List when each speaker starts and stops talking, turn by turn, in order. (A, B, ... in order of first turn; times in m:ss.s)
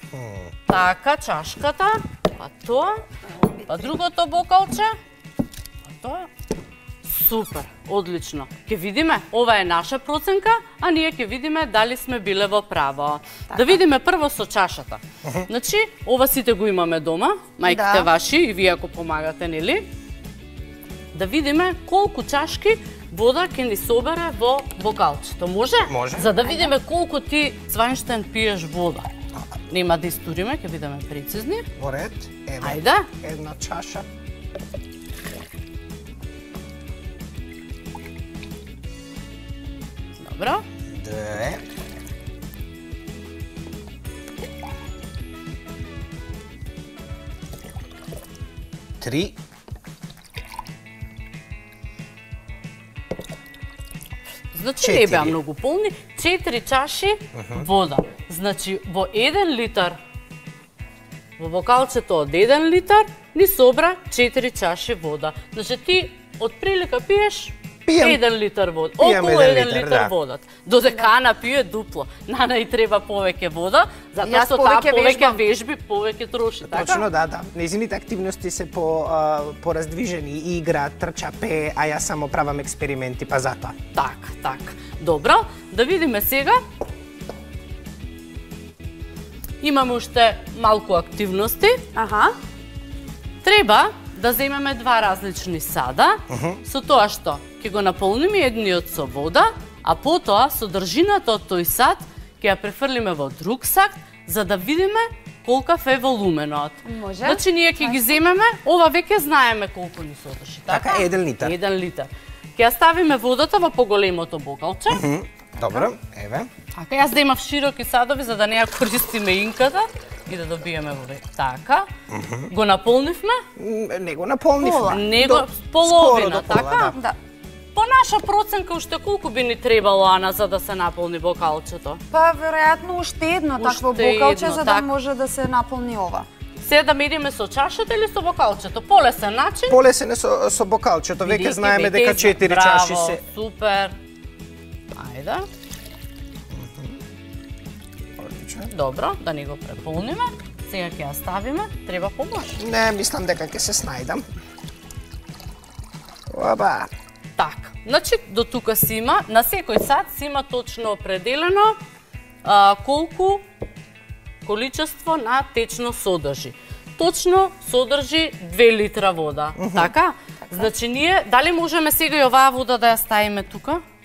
0:00.1-0:00.5 A
0:00.7-0:03.0 B
0:03.3-0:03.9 C
0:03.7-0:04.9 B
0:05.8-0:06.3 B
0:07.0-0:19.9 B
0:13.5-0:13.8 C
0:17.6-0:18.1 C
0:21.1-0:29.1 B
0:25.9-0:26.3 A
0:29.7-0:31.7 B
0:31.8-0:34.0 A
0:32.6-0:33.1 B
0:40.2-0:40.6 B
0:40.9-0:41.6 A
0:49.0-0:49.3 A
0:54.5-1:00.0 B
0:54.8-0:55.4 A
0:57.3-0:57.6 A
1:01.4-1:17.0 B
1:07.8-1:08.2 A
1:09.0-1:10.1 A
1:14.2-1:15.4 C
1:16.7-1:23.7 A
1:23.9-1:26.6 B
1:29.6-1:31.8 B
1:31.9-1:32.4 C
1:33.4-1:55.0 B
1:36.3-1:36.6 A
1:46.8-1:48.0 C
1:50.7-1:51.6 A
1:54.9-1:56.5 A
1:56.7-2:01.9 B
2:02.1-2:02.5 A
2:02.5-2:03.4 B
2:03.6-2:07.0 A
2:04.6-2:05.0 C
2:04.8-2:06.9 B
2:07.7-2:12.0 B
2:12.1-2:16.3 C
2:13.6-2:14.8 B
2:16.6-2:19.8 B
2:19.7-2:23.2 A
2:21.2-2:24.0 B
2:24.9-2:25.5 B
2:26.5-2:27.0 A
2:28.2-2:28.7 A
2:28.7-2:32.6 B
2:32.6-2:34.2 A
2:36.3-2:36.9 A
2:37.4-2:41.8 B
2:42.4-2:43.4 B
2:44.4-2:53.8 B
2:49.6-2:49.9 A
2:50.4-2:50.7 C